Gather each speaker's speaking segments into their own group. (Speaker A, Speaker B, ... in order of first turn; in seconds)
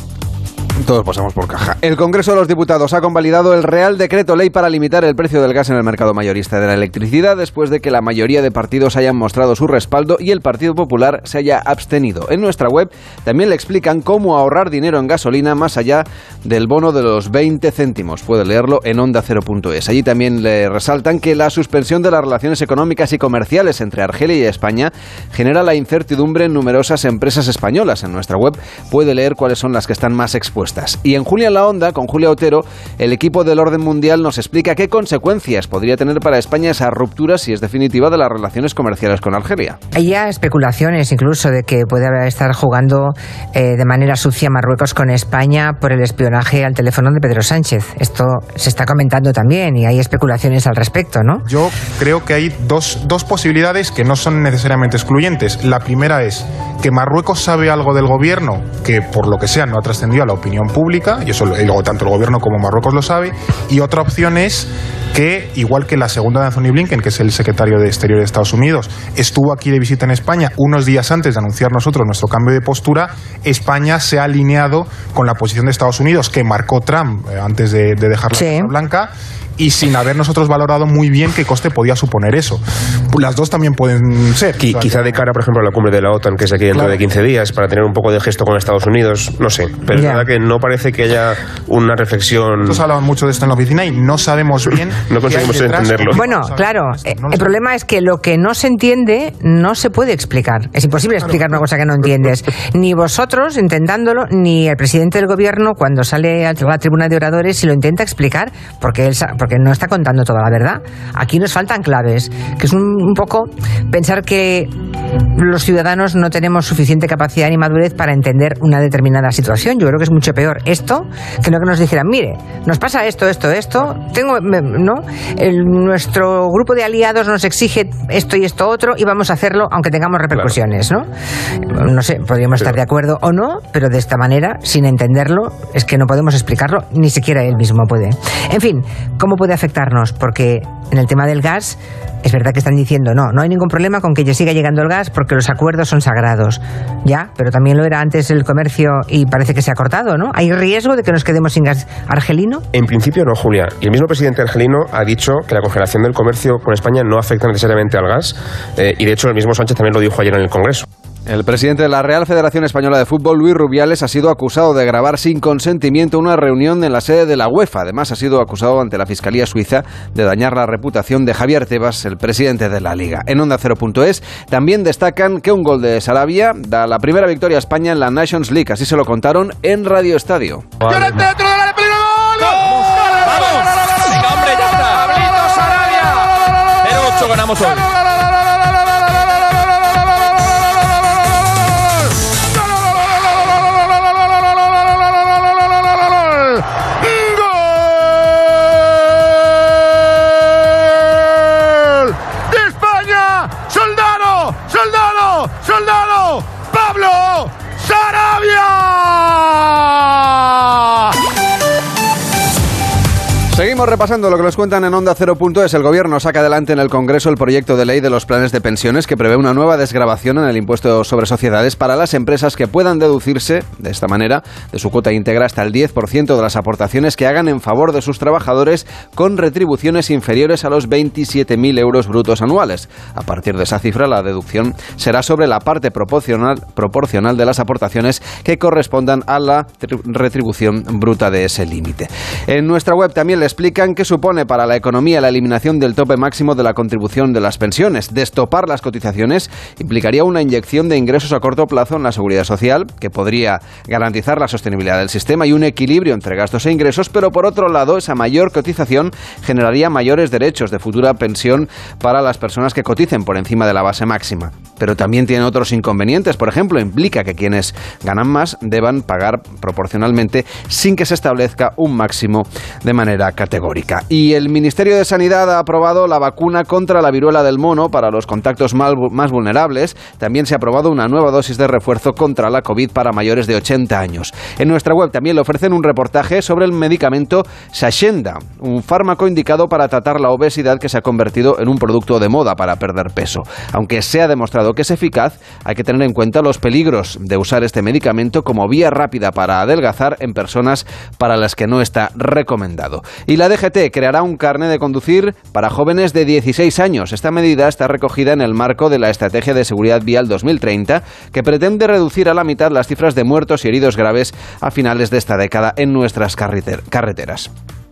Speaker A: 0.8-39.8, 161.3-180.8, 213.5-317.5
Speaker B: 39.9-51.4, 78.3-78.7, 89.9-90.2, 96.1-114.7, 115.3-131.1, 131.7-152.6
Speaker C: 51.5-85.3, 86.7-87.0, 92.6-97.6
Speaker D: 84.6-92.8, 95.0-96.2, 152.7-160.8
Speaker E: 182.4-186.2, 186.8-187.8